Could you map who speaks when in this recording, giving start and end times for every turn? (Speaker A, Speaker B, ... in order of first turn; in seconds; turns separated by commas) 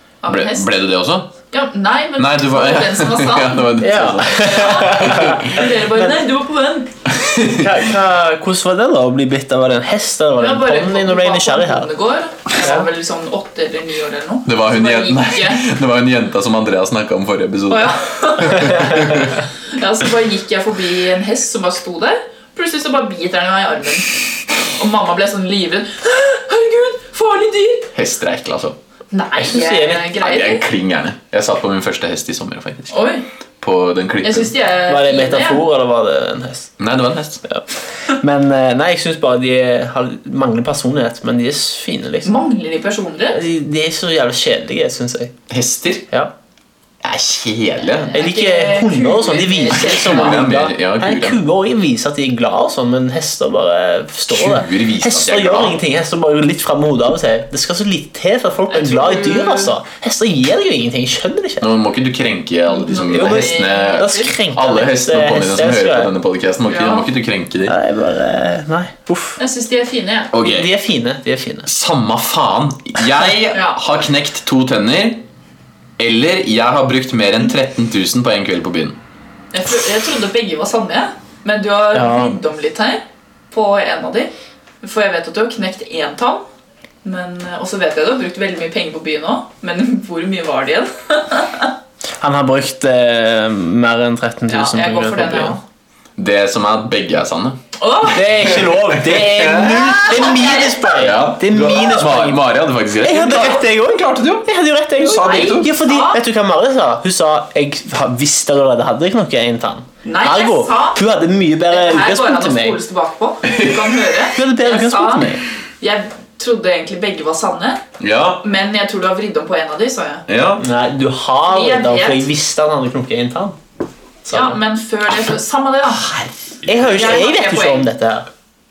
Speaker A: 0.2-0.7, Speaker B: 0.3-1.3, Speaker A: 1.5-3.7, Speaker B: 2.2-5.5, Speaker C: 3.8-6.2, Speaker A: 4.3-6.9, Speaker B: 7.1-7.7, Speaker C: 7.5-11.9, Speaker A: 10.4-15.7, Speaker C: 12.6-12.9, Speaker B: 14.4-19.4, Speaker A: 17.7-27.9, Speaker B: 27.9-28.8, Speaker A: 29.1-30.6, Speaker C: 29.4-30.1, Speaker B: 30.2-32.9, Speaker A: 32.9-33.2, Speaker B: 33.6-34.5, Speaker A: 34.2-35.6, Speaker C: 34.9-36.7, Speaker B: 36.8-37.4, Speaker C: 38.1-42.3, Speaker A: 42.2-43.4, Speaker C: 43.3-45.3, Speaker B: 45.5-46.1, Speaker B: 47.0-48.1, Speaker A: 48.0-50.4, Speaker C: 48.1-61.6, Speaker B: 49.7-51.4, Speaker B: 54.3-55.8, Speaker A: 58.7-59.7, Speaker B: 61.6-67.8, Speaker A: 62.7-64.3, Speaker C: 63.0-66.1, Speaker A: 66.7-67.1, Speaker C: 67.7-69.4, Speaker A: 69.4-70.3, Speaker B: 70.3-70.7, Speaker C: 70.4-71.7, Speaker B: 71.7-75.2, Speaker A: 73.5-73.8, Speaker B: 76.0-79.0, Speaker A: 79.5-84.3, Speaker C: 81.9-82.4, Speaker A: 84.8-86.4, Speaker A: 87.0-91.7, Speaker C: 92.2-95.6, Speaker A: 94.5-95.6, Speaker B: 96.2-97.6, Speaker A: 97.8-98.2, Speaker C: 98.1-112.8, Speaker B: 98.3-104.5, Speaker A: 99.9-100.9, Speaker B: 105.0-105.7, Speaker A: 105.0-106.2, Speaker A: 110.0-111.0, Speaker A: 111.7-117.8, Speaker B: 113.5-113.9, Speaker C: 114.3-115.4, Speaker B: 118.0-118.4, Speaker A: 118.4-120.2, Speaker B: 120.3-120.6, Speaker C: 120.6-123.6, Speaker A: 121.5-122.3, Speaker C: 124.2-124.6, Speaker A: 124.3-126.1, Speaker B: 126.0-127.0, Speaker C: 126.7-128.3, Speaker A: 126.8-127.9